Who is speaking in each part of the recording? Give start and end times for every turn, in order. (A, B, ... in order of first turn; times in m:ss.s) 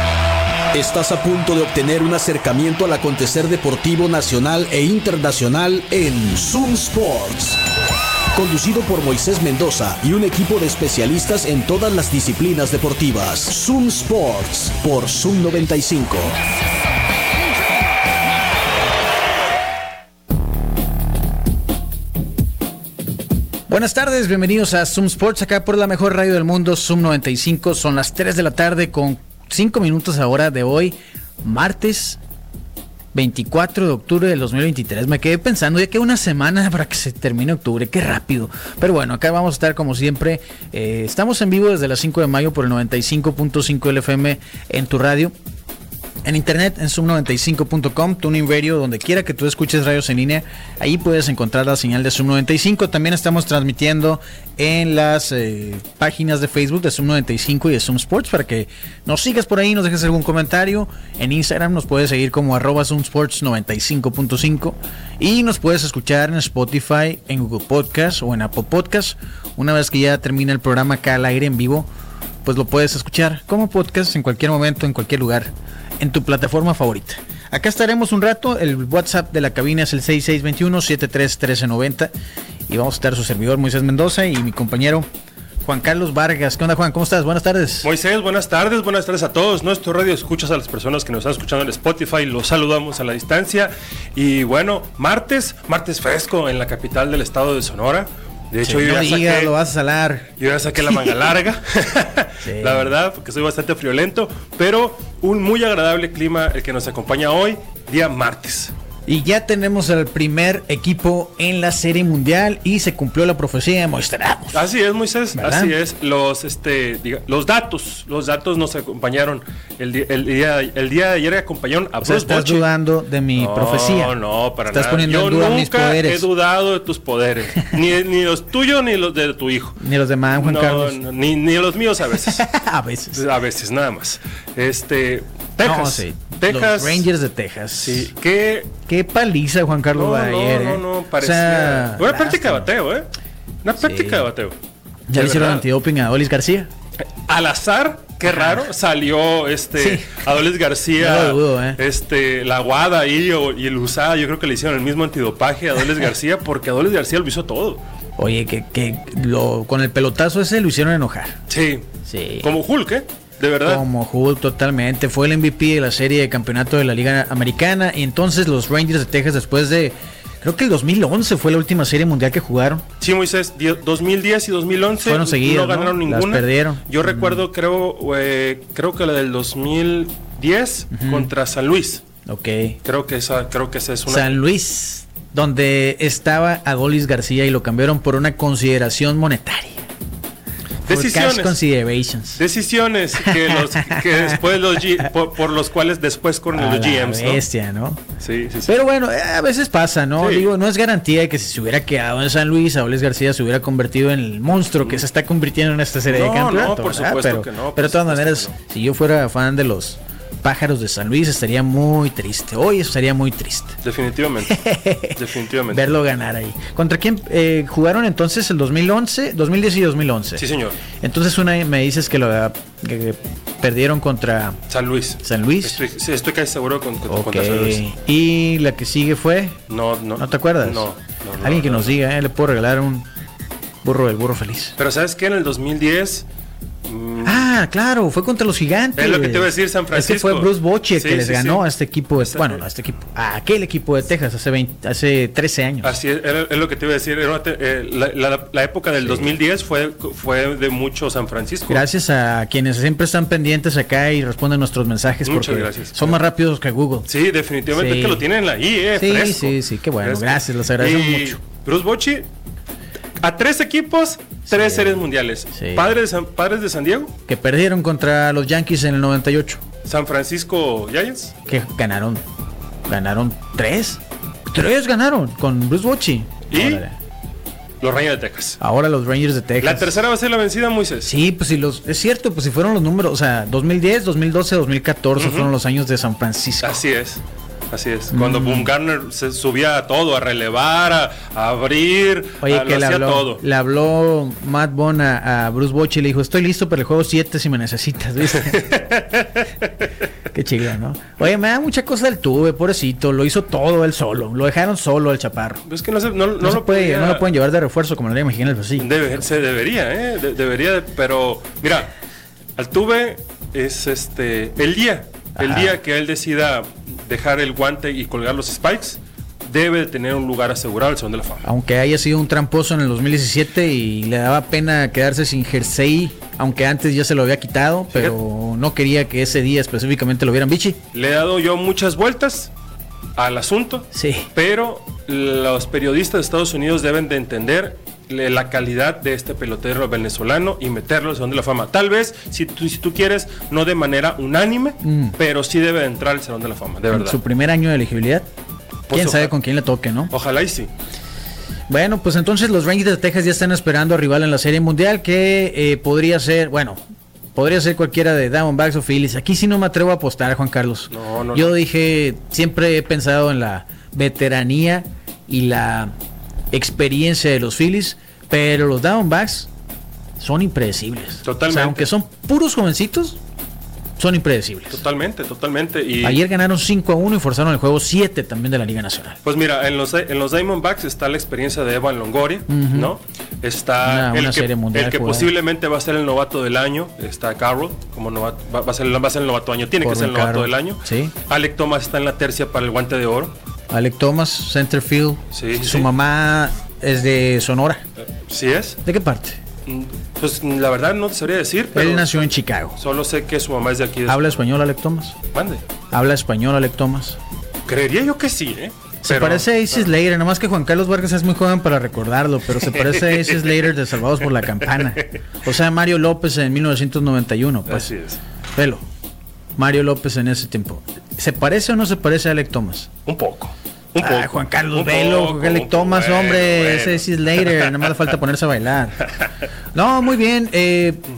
0:00.7-0:07.6 A
0:08.3-0:16.4 A
0:23.7-0:32.2 B
0:33.1-0:45.3 B
0:46.2-1:11.9 B
1:12.4-1:22.1 B
1:22.7-1:25.1 B
1:25.6-1:27.9 B
1:27.8-1:39.5 C
1:38.6-1:40.3 B
1:40.4-1:48.7 C
1:40.8-1:41.1 B
1:42.4-1:42.9 B
1:49.1-1:54.7 B
1:54.5-2:02.6 C
1:55.4-1:55.7 B
2:02.0-2:04.2 B
2:03.4-2:12.4 C
2:04.7-2:06.3 B
2:09.8-2:11.0 B
2:12.2-2:13.2 B
2:13.1-2:17.0 C
2:15.6-2:18.1 B
2:17.8-2:18.7 C
2:18.9-2:22.7 B
2:19.9-2:23.1 C
2:23.6-2:24.6 C
2:23.8-2:24.3 B
2:25.1-2:26.7 B
2:25.1-2:25.6 C
2:27.2-2:37.8 C
2:29.8-2:30.2 B
2:31.0-2:31.8 B
2:38.2-2:41.4 B
2:41.5-2:41.9 C
2:42.0-2:42.5 B
2:42.4-2:43.8 C
2:43.6-2:52.8 B
2:53.0-3:02.0 C
2:55.0-2:57.4 B
3:00.9-3:01.3 B
3:02.2-3:02.8 B
3:02.8-3:04.4 C
3:04.1-3:09.9 B
3:10.8-3:11.6 C
3:10.9-3:12.4 B
3:12.4-3:17.4 C
3:13.2-3:14.4 B
3:16.5-3:18.0 B
3:18.2-3:18.7 C
3:18.6-3:33.8 B
3:20.2-3:20.5 C
3:26.1-3:28.5 C
3:33.8-3:34.6 C
3:34.5-3:35.2 B
3:35.1-3:35.9 C
3:35.7-3:44.6 B
3:40.4-3:40.8 C
3:44.7-3:47.8 C
3:45.2-3:45.8 B
3:47.1-3:49.6 B
3:49.7-3:52.0 C
3:50.2-3:50.8 B
3:51.4-3:53.1 B
3:53.8-3:54.7 B
3:54.8-3:56.2 C
3:56.8-3:57.5 C
3:57.2-4:06.0 B
3:59.0-4:01.6 C
4:02.2-4:02.6 C
4:05.8-4:11.8 C
4:09.0-4:09.3 B
4:11.7-4:17.1 B
4:15.2-4:16.2 C
4:17.1-4:22.3 C
4:17.7-4:18.2 B
4:18.9-4:21.4 B
4:23.2-4:27.1 C
4:24.5-4:26.0 B
4:27.3-4:29.6 B
4:29.8-4:31.3 C
4:31.5-4:32.2 B
4:32.9-4:37.0 B
4:36.5-4:36.8 C
4:37.8-4:38.6 C
4:38.6-4:40.0 B
4:39.6-4:41.1 C
4:41.0-4:46.8 B
4:45.2-4:45.5 C
4:46.6-4:53.4 C
4:48.1-4:48.7 B
4:52.4-4:58.6 B
4:58.3-4:59.7 C
5:00.3-5:05.6 B
5:05.6-5:07.3 C
5:06.4-5:08.9 B
5:08.8-5:11.9 C
5:12.6-5:21.5 C
5:15.4-5:15.8 B
5:21.4-5:30.8 B
5:27.9-5:28.2 C
5:30.9-5:32.5 C
5:33.2-5:47.2 C
5:33.9-5:34.3 B
5:44.8-5:45.2 B
5:46.9-5:48.3 B
5:48.9-5:49.3 C
5:48.9-5:50.1 B
5:50.1-5:50.7 C
5:51.7-5:56.8 B
5:57.3-6:05.9 B
6:00.9-6:01.5 C
6:06.5-6:09.5 B
6:10.2-6:13.2 B
6:11.2-6:11.9 C
6:14.0-6:14.8 B
6:14.7-6:16.2 C
6:16.0-6:19.2 B
6:19.2-6:33.3 C
6:22.5-6:22.9 B
6:23.8-6:25.3 B
6:29.8-6:31.1 B
6:33.7-6:37.8 B
6:35.3-6:35.9 C
6:38.0-6:38.8 C
6:38.8-6:39.4 B
6:39.6-6:44.5 C
6:41.7-6:42.8 B
6:44.1-6:45.2 B
6:45.3-6:45.6 C
6:45.9-6:47.2 B
6:47.7-6:49.9 C
6:49.0-6:57.9 B
6:52.7-6:53.6 C
6:54.6-6:55.1 C
6:57.7-6:58.2 C
6:58.6-6:58.8 B
6:59.6-7:02.9 B
7:03.0-7:07.8 C
7:04.0-7:09.1 B
7:09.7-7:11.0 B